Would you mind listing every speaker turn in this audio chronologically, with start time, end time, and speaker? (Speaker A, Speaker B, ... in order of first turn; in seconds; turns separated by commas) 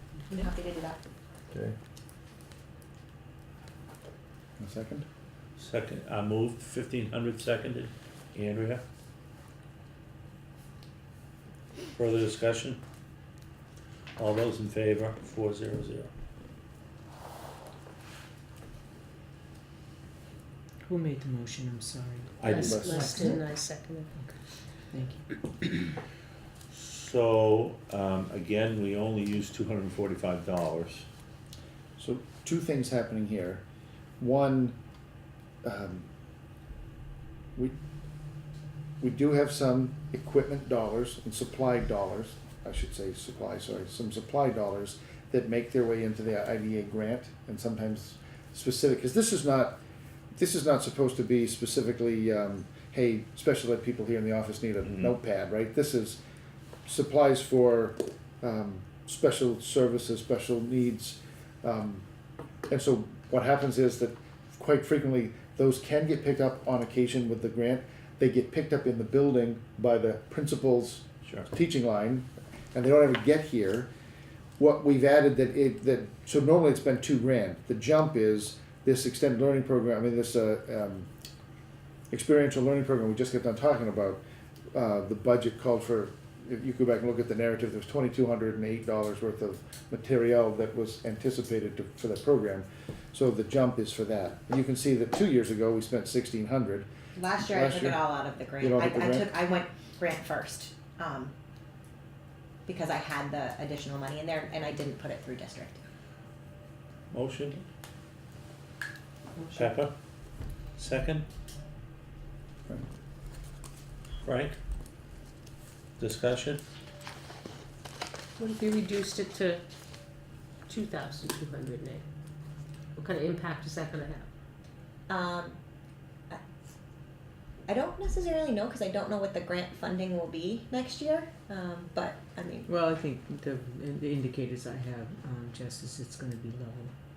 Speaker A: 0.3-1.0, Speaker B: 4.6-5.1, Speaker C: 5.6-8.8, Speaker C: 12.0-12.8, Speaker C: 14.2-16.1, Speaker D: 20.8-23.4, Speaker C: 22.4-23.2, Speaker E: 22.5-24.1, Speaker B: 22.5-23.4, Speaker D: 24.9-25.2, Speaker C: 26.7-31.1, Speaker B: 32.0-33.6, Speaker B: 34.2-34.8, Speaker B: 35.6-36.1, Speaker B: 39.0-49.8, Speaker B: 50.4-56.2, Speaker C: 54.9-55.1, Speaker B: 56.9-62.0, Speaker B: 62.7-73.9, Speaker B: 74.6-81.1, Speaker B: 82.1-84.2, Speaker B: 84.7-98.0, Speaker A: 97.2-101.3, Speaker B: 98.6-99.3, Speaker A: 102.7-105.8, Speaker C: 107.1-107.6, Speaker C: 109.6-109.9, Speaker C: 110.8-111.3, Speaker C: 114.2-114.6, Speaker C: 116.0-116.6, Speaker E: 118.4-119.6, Speaker E: 120.7-122.0, Speaker E: 123.0-124.3, Speaker A: 125.1-125.6, Speaker A: 127.7-132.7, Speaker D: 132.7-136.9